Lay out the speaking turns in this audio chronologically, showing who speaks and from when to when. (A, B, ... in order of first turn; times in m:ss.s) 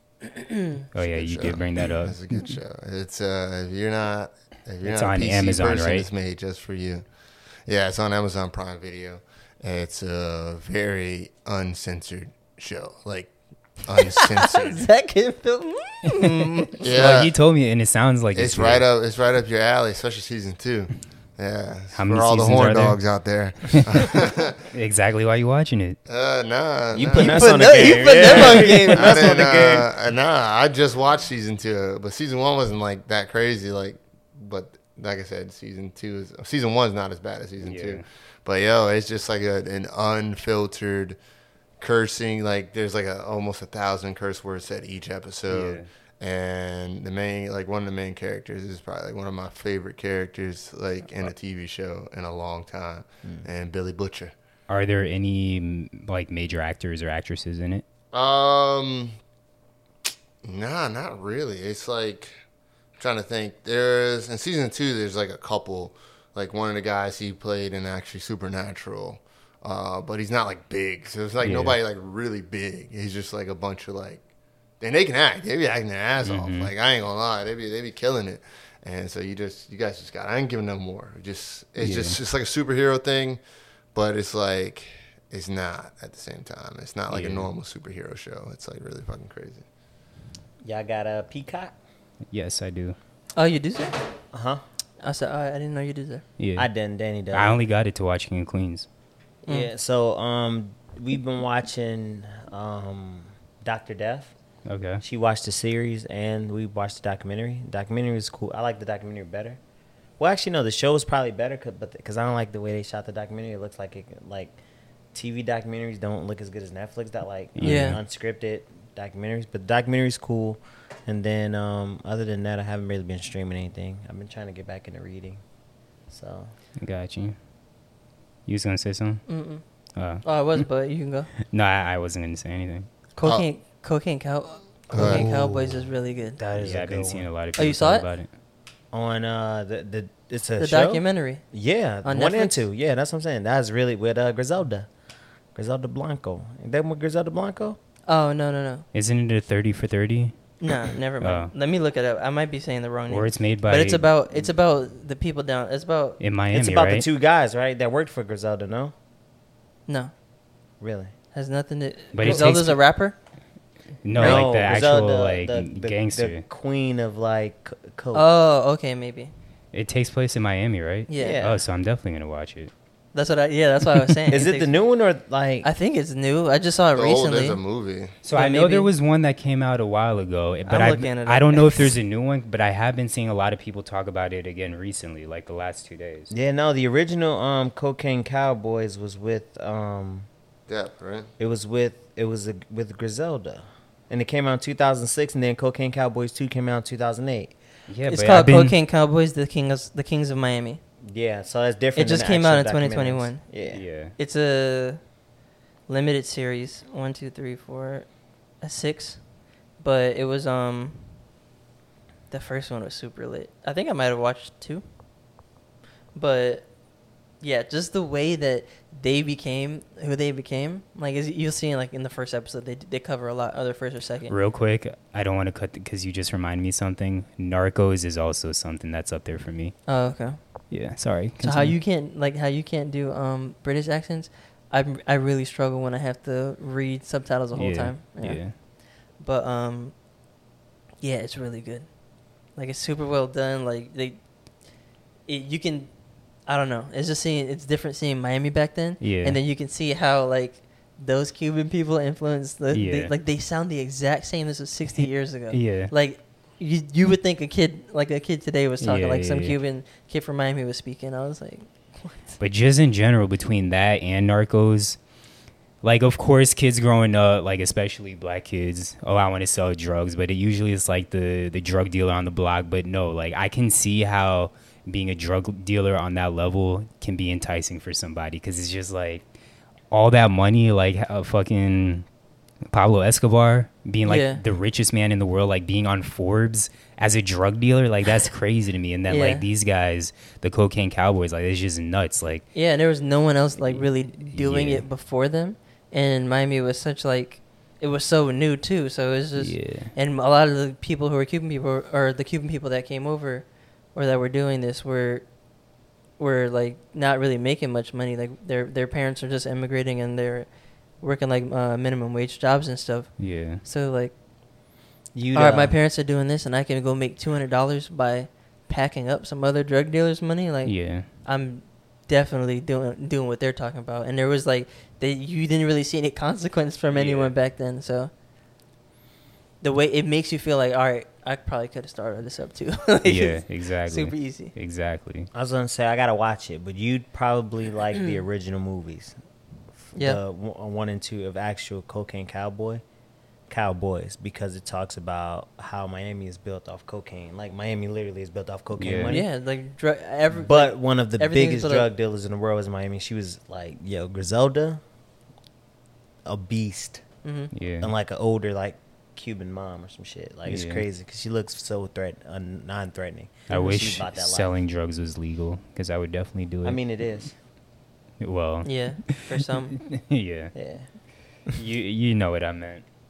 0:00.9-0:02.2 A
0:00.9-0:07.0 B
0:04.8-0:06.1 A
0:07.6-0:13.3 B
0:13.8-0:14.8 B
0:14.0-0:16.8 C
0:16.0-0:18.8 A
0:16.8-0:17.3 B
0:18.3-0:24.7 B
0:21.9-0:23.0 A
0:23.7-0:24.0 A
0:24.7-0:26.0 A
0:26.1-0:41.2 B
0:26.9-0:29.9 D
0:27.1-0:29.4 C
0:37.6-0:38.0 A
0:41.8-0:54.3 B
0:45.5-0:45.9 A
0:54.7-0:57.8 A
0:58.1-0:59.2 B
1:00.4-1:02.3 B
1:03.0-1:14.2 B
1:11.4-1:11.8 A
1:14.8-1:23.4 B
1:16.2-1:16.7 A
1:21.8-1:22.2 A
1:23.9-1:29.6 B
1:27.1-1:27.5 A
1:30.6-1:31.8 D
1:32.3-1:33.0 A
1:33.4-1:34.0 C
1:34.3-1:34.6 D
1:35.0-1:36.2 C
1:36.4-1:36.7 A
1:36.6-1:37.6 D
1:37.3-1:38.9 A
1:39.4-1:44.3 D
1:44.7-1:45.0 A
1:45.0-1:49.6 D
1:50.2-1:54.6 D
1:55.1-2:05.4 D
1:57.6-1:58.0 A
1:57.6-1:58.0 C
2:06.1-2:06.5 D
2:06.8-2:07.4 A
2:08.5-2:09.2 A
2:09.3-2:09.6 C
2:10.0-2:10.2 A
2:10.2-2:11.3 C
2:11.4-2:12.9 A
2:13.2-2:16.4 C
2:14.9-2:15.8 B
2:14.9-2:15.3 D
2:16.4-2:17.3 D
2:16.5-2:18.3 A
2:17.5-2:18.0 C
2:18.9-2:24.9 D
2:20.6-2:21.4 C
2:22.0-2:22.6 C
2:25.5-2:27.8 D
2:28.1-2:28.9 C
2:28.9-2:30.4 A
2:30.6-2:36.2 C
2:31.2-2:31.5 A
2:33.1-2:34.1 A
2:36.2-2:37.1 A
2:36.5-2:38.9 D
2:40.8-2:41.1 D
2:41.3-2:43.2 C
2:42.1-2:42.8 A
2:42.2-2:42.5 D
2:44.0-2:46.4 A
2:44.1-2:48.3 D
2:48.1-2:49.3 C
2:49.7-2:52.7 A
2:51.1-2:51.4 C
2:51.2-2:51.6 D
2:53.1-2:54.7 C
2:54.3-2:55.7 D
2:55.6-2:57.6 C
2:56.9-2:58.1 B
2:58.2-3:06.3 A
2:58.3-2:58.9 C
3:00.7-3:01.9 C
3:06.3-3:10.3 D
3:10.7-3:11.3 B
3:11.4-3:17.5 D
3:17.9-3:18.7 A
3:18.1-3:20.8 C
3:21.1-3:23.8 D
3:22.0-3:23.5 C
3:23.7-3:24.1 A
3:24.2-3:25.0 C
3:25.9-3:28.1 C
3:28.6-3:29.2 C
3:29.8-3:31.0 C
3:32.3-3:34.8 C
3:36.2-3:36.7 C
3:37.4-3:44.3 C
3:44.3-3:49.8 A
3:49.9-3:50.4 C
3:50.7-3:51.8 A
3:51.4-3:58.6 C
3:57.5-3:58.6 A
3:59.2-3:59.9 C
4:01.0-4:01.9 C
4:02.5-4:04.2 C
4:05.3-4:05.9 C
4:06.5-4:22.3 C
4:09.0-4:09.4 A
4:12.7-4:13.1 A
4:15.0-4:15.9 A
4:18.8-4:19.6 A
4:22.4-4:25.0 A
4:25.8-4:39.2 A
4:39.9-4:42.0 A
4:42.7-4:52.4 A
4:44.0-4:44.4 C
4:49.1-4:49.4 C
4:52.5-5:05.3 C
4:53.6-4:54.8 A
4:59.4-4:59.9 A
5:06.2-5:14.1 C
5:13.2-5:13.6 A
5:15.1-5:15.8 D
5:15.3-5:28.1 C
5:20.6-5:21.1 A
5:26.9-5:27.3 B
5:29.6-5:34.5 C
5:33.0-5:35.3 A
5:35.3-5:39.2 D
5:39.9-5:42.8 D
5:43.5-5:49.3 D
5:48.8-5:49.2 A
5:49.1-5:51.9 C
5:50.3-5:54.8 D
5:56.2-5:57.0 D
5:57.2-5:57.5 C
5:57.5-5:57.9 A
5:57.8-6:04.5 D
6:00.5-6:00.8 A
6:03.5-6:06.8 A
6:06.6-6:07.3 D
6:08.2-6:09.2 A
6:08.6-6:09.8 C
6:09.7-6:10.5 A
6:10.5-6:10.9 D
6:11.5-6:12.8 A